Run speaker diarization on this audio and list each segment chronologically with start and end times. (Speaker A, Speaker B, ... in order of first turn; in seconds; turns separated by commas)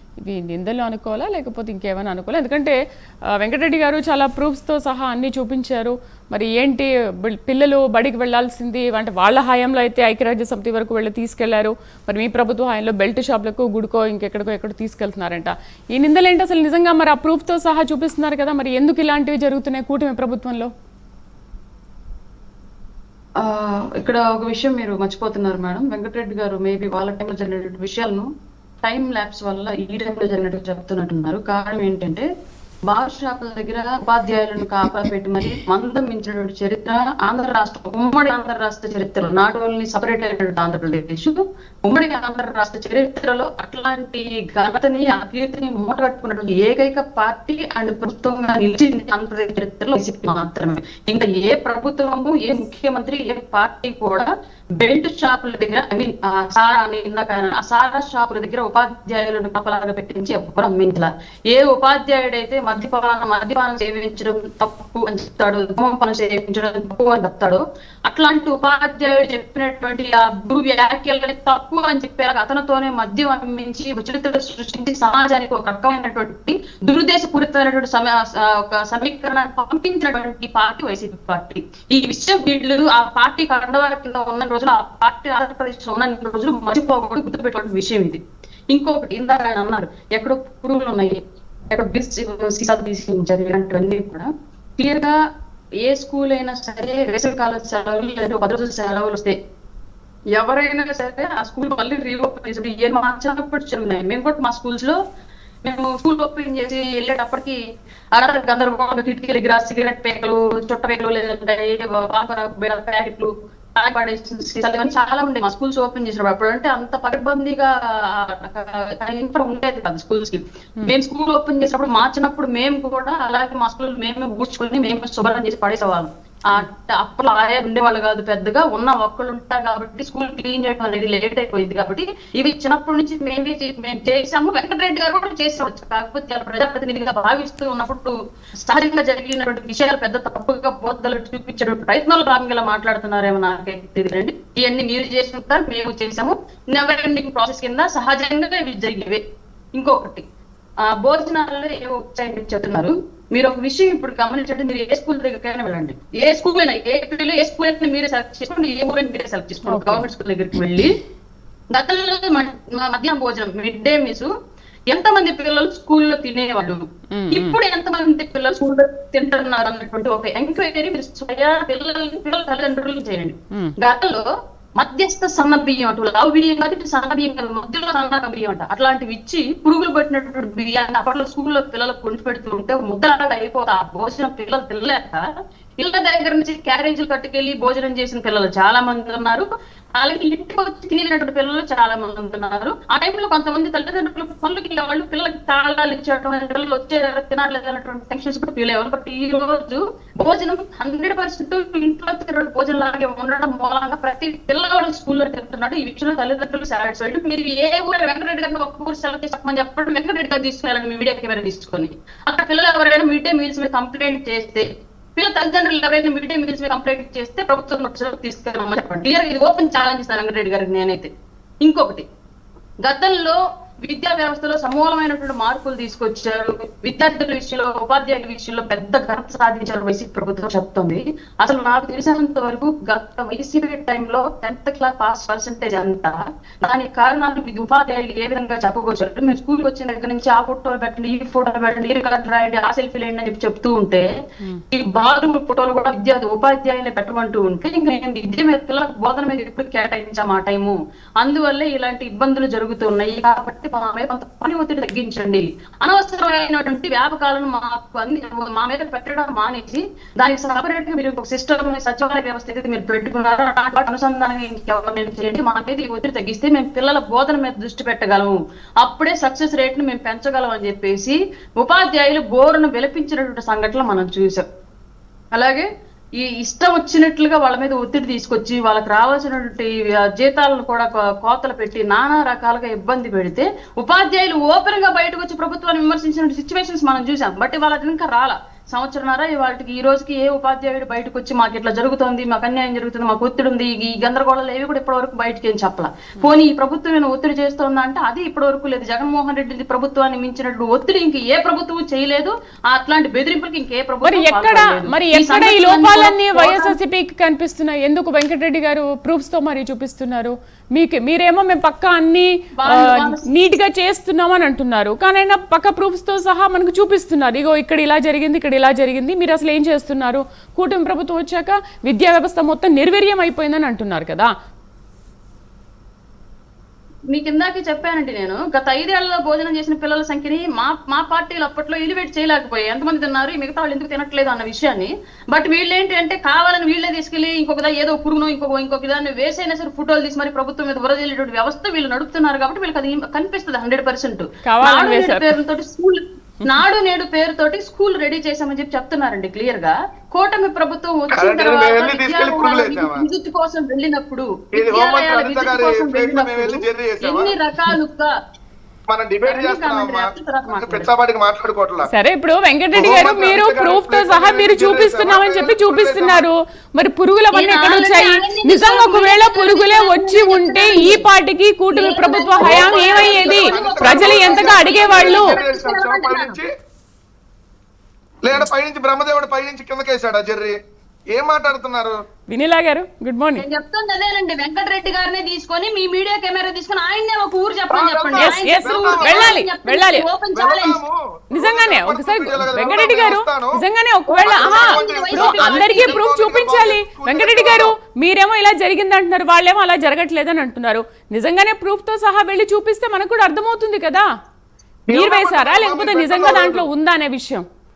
Speaker A: 0.2-2.8, Speaker A: 3.4-20.7, Speaker B: 23.4-28.2, Speaker B: 28.8-32.2, Speaker B: 32.9-88.2, Speaker B: 88.7-91.2, Speaker B: 91.7-95.1, Speaker B: 95.8-99.3, Speaker B: 100.3-105.0, Speaker B: 105.6-107.6, Speaker B: 108.1-138.1, Speaker B: 138.7-149.2, Speaker B: 149.7-150.2, Speaker B: 150.9-160.9, Speaker A: 159.7-160.0, Speaker B: 161.7-164.3, Speaker B: 164.9-174.2, Speaker A: 167.1-167.6, Speaker B: 174.8-185.2, Speaker B: 185.8-189.4, Speaker B: 190.0-214.6, Speaker B: 215.2-221.1, Speaker B: 221.6-222.0, Speaker B: 222.8-244.0, Speaker B: 244.7-274.4, Speaker B: 275.3-275.6, Speaker B: 276.2-306.8, Speaker A: 304.0-324.3, Speaker B: 312.6-313.3, Speaker B: 327.1-358.1, Speaker A: 344.4-345.3, Speaker C: 351.1-353.0, Speaker C: 354.5-357.4, Speaker C: 358.9-361.9, Speaker B: 359.2-360.9, Speaker A: 361.9-375.4, Speaker C: 362.7-366.2, Speaker B: 367.3-371.0, Speaker B: 371.7-376.4, Speaker C: 372.4-376.5, Speaker C: 378.2-380.6, Speaker C: 381.1-381.9, Speaker A: 382.3-383.4, Speaker B: 383.4-390.8, Speaker C: 387.7-389.4, Speaker A: 388.1-390.0, Speaker C: 390.3-393.6, Speaker A: 391.3-404.1, Speaker B: 394.1-396.0, Speaker C: 394.2-397.7, Speaker C: 404.9-406.7, Speaker A: 404.9-407.4